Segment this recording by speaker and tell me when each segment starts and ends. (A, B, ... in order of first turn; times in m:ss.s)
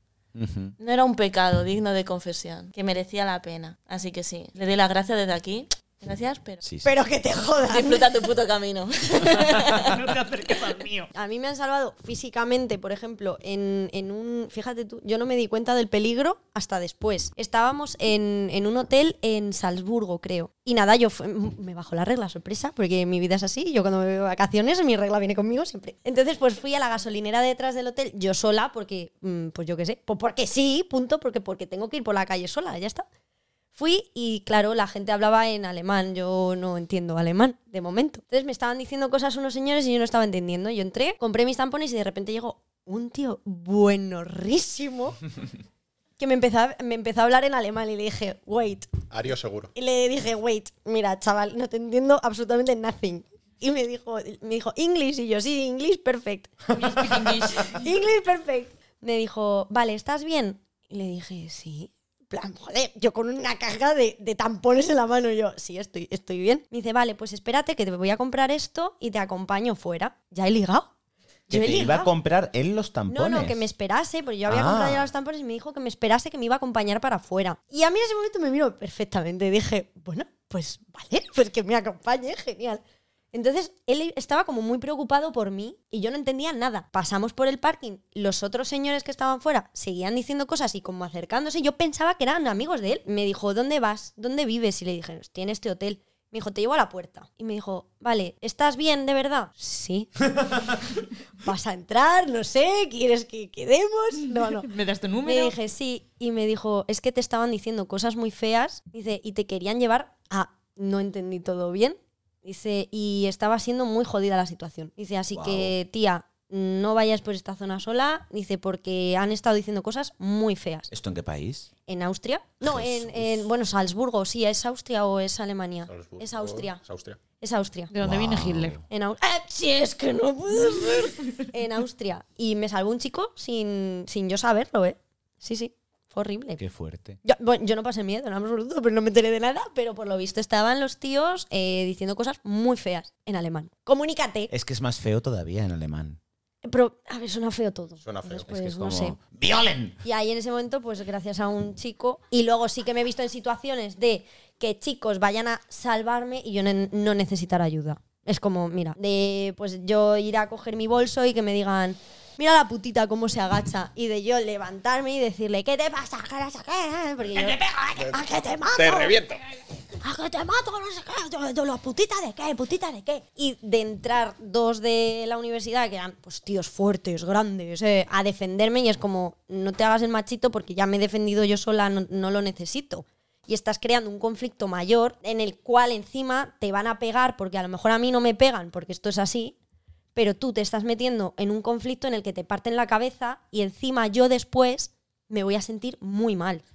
0:00.3-0:00.7 A
0:00.8-0:06.6 B
0:06.6-0:06.9 A
0:06.8-0:08.1 C
0:07.7-0:10.0 B
0:09.1-0:09.6 C
0:10.0-0:11.1 D
0:11.1-0:33.0 C
0:33.7-0:45.2 C
0:46.2-0:48.9 C
0:49.1-0:49.7 E
0:49.7-1:10.9 C
0:56.7-0:57.9 D
1:11.5-1:13.6 A
1:11.5-1:12.1 C
1:13.1-1:22.8 C
1:14.4-1:15.1 A
1:23.3-1:40.7 C
1:41.4-1:44.7 C
1:44.2-1:45.6 D
1:45.2-2:00.9 C
1:55.3-1:55.7 A
2:00.9-2:01.7 A
2:01.9-2:06.8 C
2:02.6-2:03.5 A
2:05.9-2:07.2 E
2:07.4-2:07.9 C
2:07.9-2:08.8 D
2:08.0-2:08.8 A
2:08.9-2:16.6 C
2:16.6-2:17.2 A
2:17.2-2:24.5 C
2:24.5-2:26.2 A
2:26.6-2:29.2 C
2:28.0-2:28.4 E
2:28.4-2:30.0 A
2:30.0-2:49.2 C
2:47.3-2:48.2 E
2:48.7-2:49.4 E
2:50.0-3:09.5 C
3:10.1-3:16.6 C